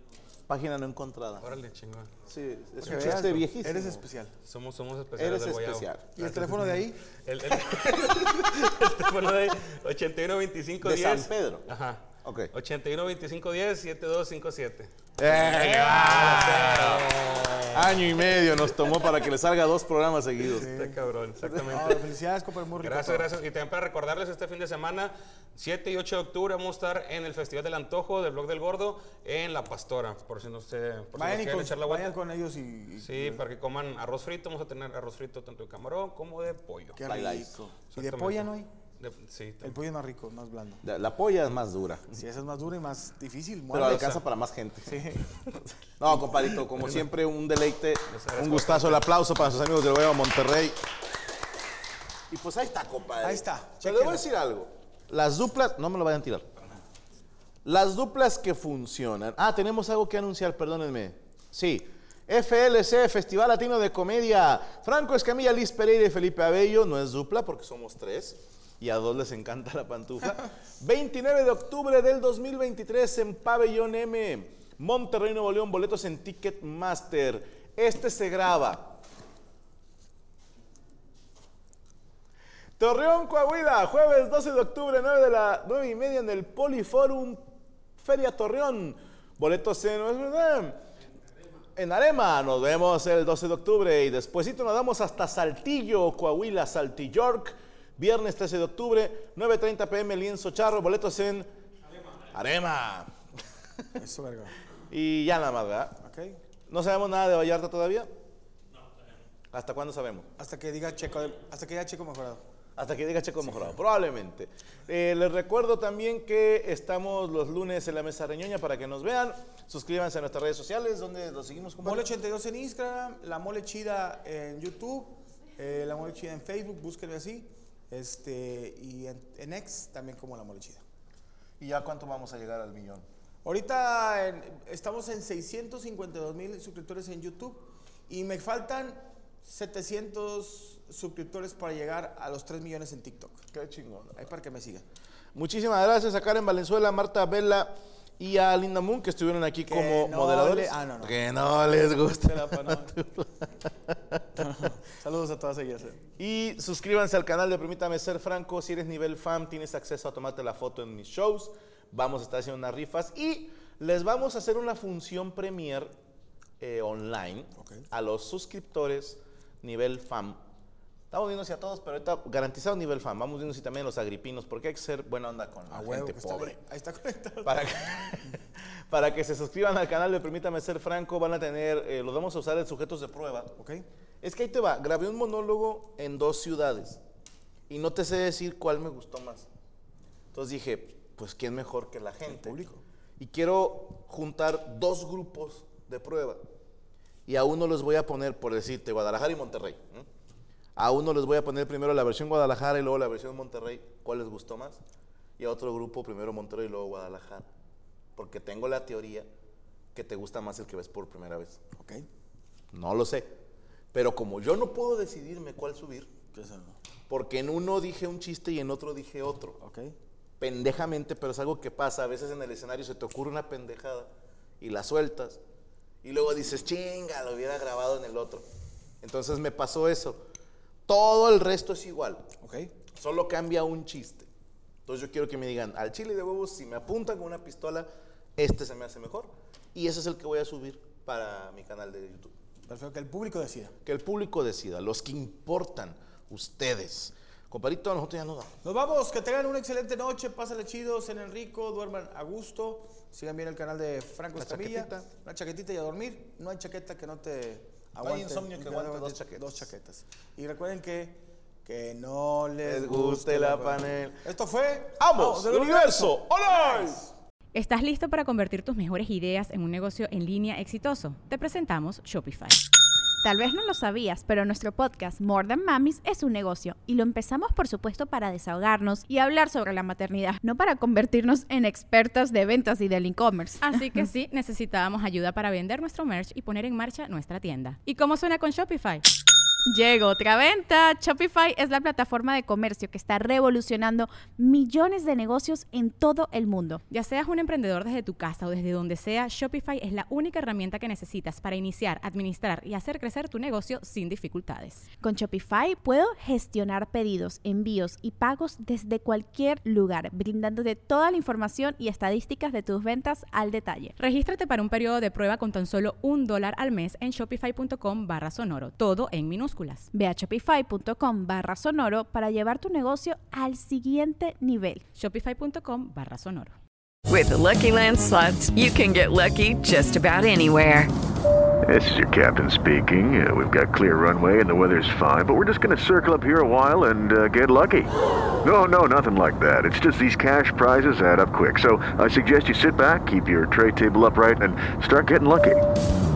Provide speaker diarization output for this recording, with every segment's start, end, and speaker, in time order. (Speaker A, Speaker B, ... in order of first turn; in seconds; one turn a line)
Speaker A: 0.5-1.5
Speaker B: 1.4-2.1
Speaker A: 2.2-4.0
Speaker C: 2.8-4.3
Speaker B: 2.9-3.3
Speaker B: 4.5-18.2
Speaker A: 5.2-6.1
Speaker C: 6.2-7.0
Speaker A: 7.5-8.4
Speaker A: 10.8-11.7
Speaker A: 12.2-12.5
Speaker A: 15.2-17.2
Speaker C: 15.4-16.3
Speaker A: 17.7-20.8
Speaker C: 20.5-21.0
Speaker B: 20.6-22.0
Speaker A: 21.4-21.9
Speaker C: 21.7-23.3
Speaker B: 22.8-32.1
Speaker C: 31.1-33.4
Speaker B: 33.0-37.0
Speaker C: 37.0-38.7
Speaker A: 37.0-37.5
Speaker B: 37.9-39.8
Speaker C: 39.6-40.8
Speaker A: 40.8-42.2
Speaker C: 42.1-44.2
Speaker A: 43.7-45.0
Speaker C: 44.9-45.5
Speaker A: 46.0-50.8
Speaker B: 46.8-47.1
Speaker B: 48.1-49.2
Speaker A: 52.3-56.5
Speaker C: 53.2-54.2
Speaker A: 57.6-79.0
Speaker A: 82.8-87.5
Speaker A: 88.0-90.8
Speaker A: 91.8-101.5
Speaker A: 102.3-103.1
Speaker C: 104.0-104.5
Speaker A: 104.9-106.0
Speaker C: 106.0-106.4
Speaker A: 106.7-108.1
Speaker A: 109.5-110.3
Speaker C: 110.4-112.4
Speaker A: 112.8-122.1
Speaker C: 121.8-130.8
Speaker A: 131.6-133.1
Speaker C: 133.4-143.4
Speaker A: 143.5-144.3
Speaker C: 144.2-144.8
Speaker A: 145.3-154.2
Speaker C: 149.7-151.2
Speaker C: 152.1-152.9
Speaker C: 154.4-156.0
Speaker A: 156.2-165.9
Speaker A: 166.6-170.4
Speaker C: 167.6-167.8
Speaker A: 171.1-176.6
Speaker C: 175.7-177.6
Speaker A: 177.4-178.3
Speaker A: 178.9-183.6
Speaker C: 183.6-183.9
Speaker A: 184.2-187.0
Speaker A: 187.7-189.5
Speaker A: 190.3-196.4
Speaker C: 192.3-192.8
Speaker A: 197.3-200.1
Speaker A: 200.8-204.8
Speaker A: 205.4-207.5
Speaker A: 208.2-209.3
Speaker A: 209.9-211.6
Speaker C: 211.8-212.1
Speaker A: 212.7-213.3
Speaker A: 213.9-216.1
Speaker C: 216.3-216.8
Speaker A: 217.1-219.6
Speaker C: 219.6-219.9
Speaker A: 220.4-224.1
Speaker A: 224.6-225.4
Speaker A: 226.0-228.4
Speaker A: 229.0-230.2
Speaker A: 230.9-232.3
Speaker C: 232.4-232.7
Speaker A: 233.0-234.3
Speaker A: 234.9-242.3
Speaker C: 242.7-243.8
Speaker A: 243.8-248.5
Speaker C: 248.6-267.1
Speaker A: 254.4-255.1
Speaker A: 258.0-259.7
Speaker A: 262.6-264.2
Speaker A: 265.0-267.0
Speaker D: 267.5-272.6
Speaker E: 273.2-283.7
Speaker D: 283.6-289.1
Speaker E: 289.7-296.8
Speaker D: 296.9-304.9
Speaker E: 305.0-313.9
Speaker D: 314.0-319.9
Speaker E: 319.9-324.8
Speaker D: 325.0-326.6
Speaker F: 327.1-330.9
Speaker G: 331.7-345.6